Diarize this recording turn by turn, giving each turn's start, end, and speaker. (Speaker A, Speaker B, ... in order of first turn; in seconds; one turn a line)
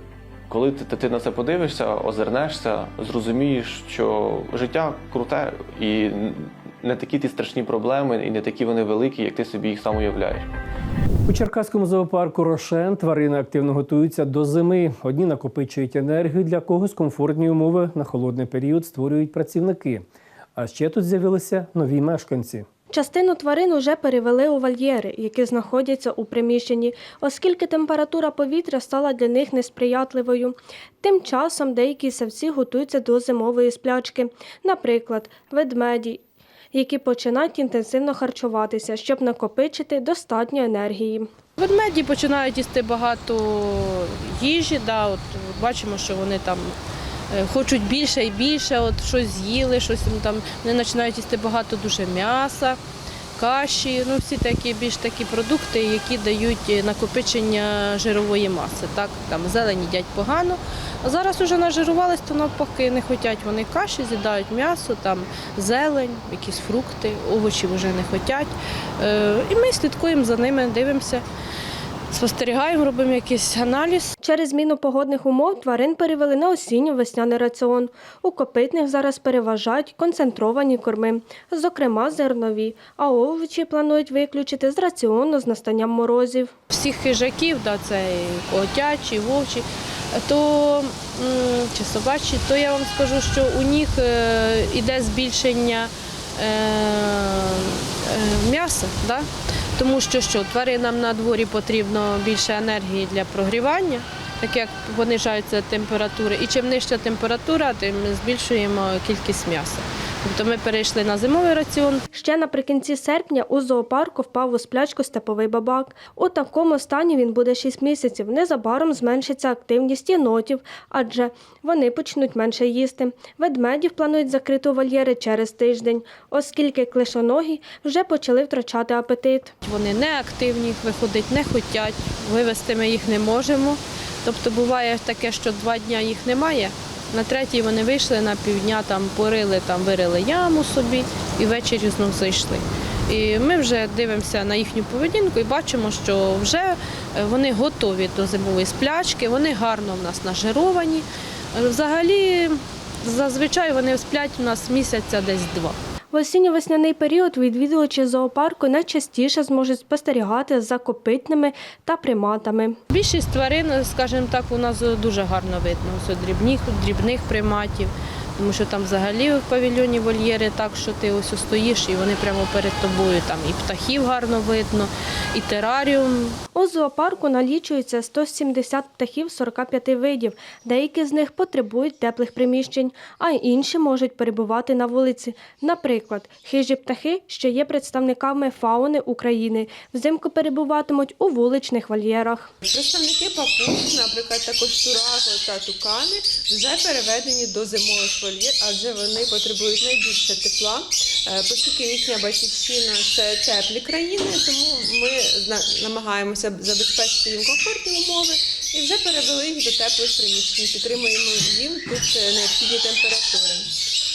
Speaker A: 0.5-10.5
Speaker B: 11.3-20.1
Speaker B: 20.6-22.7
Speaker C: 22.9-36.2
Speaker C: 36.7-41.3
Speaker D: 41.6-46.8
Speaker D: 47.3-52.8
Speaker D: 53.4-71.2
Speaker D: 72.1-74.1
Speaker C: 74.2-86.5
Speaker D: 86.7-112.0
Speaker C: 112.1-129.5
Speaker D: 129.6-155.8
Speaker C: 156.1-162.8
Speaker D: 162.9-176.4
Speaker C: 176.6-192.5
Speaker E: 192.6-213.7